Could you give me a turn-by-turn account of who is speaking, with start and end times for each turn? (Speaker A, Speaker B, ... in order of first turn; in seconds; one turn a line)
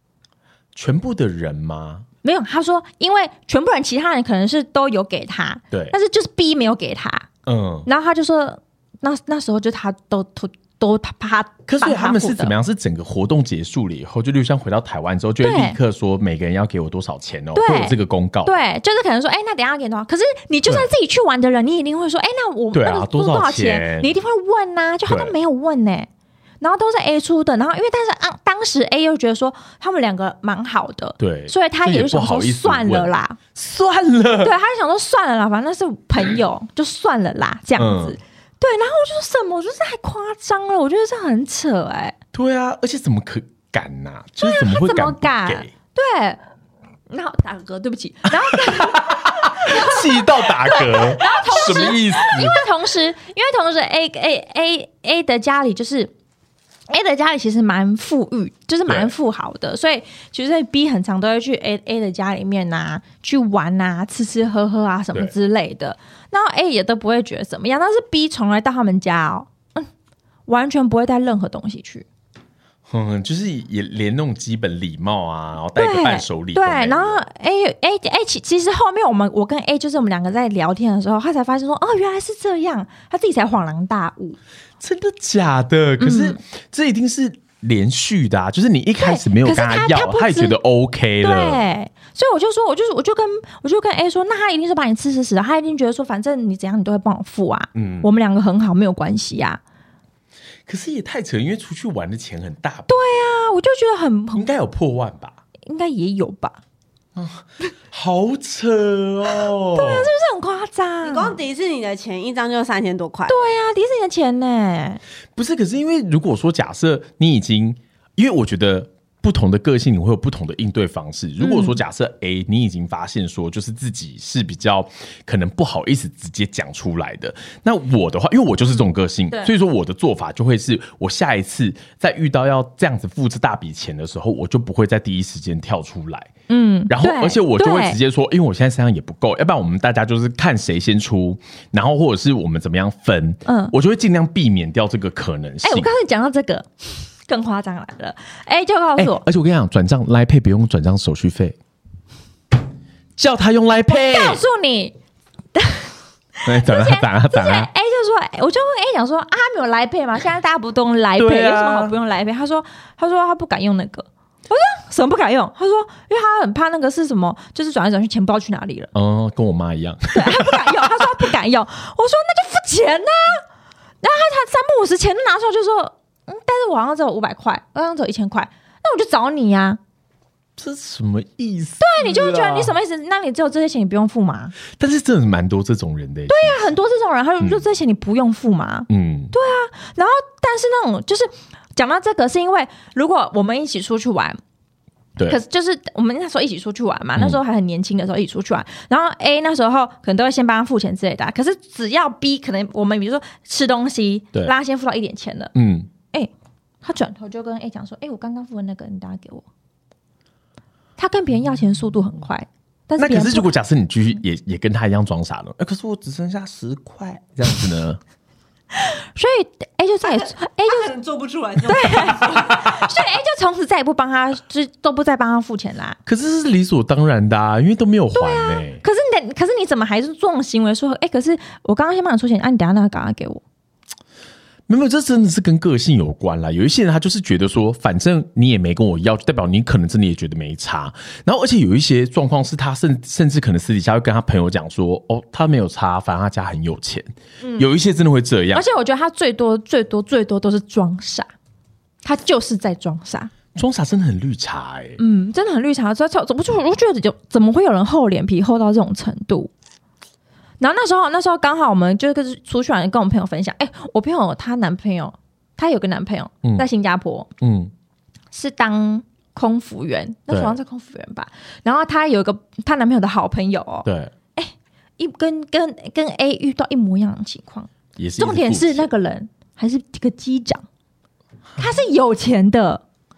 Speaker A: 0.7-2.0
Speaker B: 2.2-7.3
Speaker A: 7.5-7.9
Speaker B: 7.8-12.5
Speaker A: 11.7-18.5
Speaker B: 15.4-15.8
Speaker B: 17.5-26.1
Speaker A: 22.7-24.1
Speaker A: 25.1-25.3
Speaker B: 26.6-33.4
Speaker A: 31.2-34.5
Speaker B: 34.4-42.1
Speaker A: 37.8-38.1
Speaker A: 42.3-45.7
Speaker B: 44.4-46.4
Speaker B: 47.1-56.1
Speaker A: 48.5-52.6
Speaker B: 56.9-69.9
Speaker A: 58.9-59.1
Speaker B: 70.5-72.0
Speaker A: 72.9-77.2
Speaker B: 75.8-84.4
Speaker A: 84.8-91.6
Speaker B: 86.0-86.4
Speaker B: 89.0-90.6
Speaker B: 91.2-99.6
Speaker A: 97.7-98.1
Speaker A: 100.7-102.9
Speaker B: 102.9-104.5
Speaker A: 104.3-105.4
Speaker B: 105.7-106.6
Speaker A: 107.2-110.1
Speaker B: 109.7-111.4
Speaker C: 111.0-113.4
Speaker B: 113.3-115.0
Speaker A: 115.3-136.3
Speaker B: 121.4-121.8
Speaker B: 136.5-138.0
Speaker A: 136.9-145.9
Speaker B: 143.4-143.7
Speaker B: 145.6-149.2
Speaker A: 149.0-151.6
Speaker A: 153.2-154.4
Speaker B: 153.9-154.9
Speaker B: 155.5-168.9
Speaker A: 156.4-157.7
Speaker A: 161.2-161.9
Speaker A: 168.9-171.2
Speaker B: 170.1-173.4
Speaker B: 174.0-179.8
Speaker A: 180.6-182.7
Speaker B: 181.8-184.6
Speaker A: 184.7-186.7
Speaker B: 186.3-194.4
Speaker A: 188.9-189.3
Speaker B: 195.3-205.5
Speaker A: 205.5-205.9
Speaker B: 206.8-209.4
Speaker B: 211.0-213.5
Speaker A: 213.0-218.0
Speaker B: 218.7-220.9
Speaker C: 220.0-222.6
Speaker B: 221.6-226.0
Speaker A: 226.1-228.8
Speaker B: 228.1-233.4
Speaker A: 234.7-248.6
Speaker B: 247.4-247.7
Speaker B: 248.5-251.3
Speaker B: 252.0-253.3
Speaker A: 253.5-255.0
Speaker B: 255.0-259.5
Speaker B: 260.6-267.3
Speaker A: 267.4-267.7
Speaker B: 268.3-280.6
Speaker A: 270.3-270.6
Speaker A: 273.8-274.1
Speaker A: 278.0-278.9
Speaker B: 281.6-282.8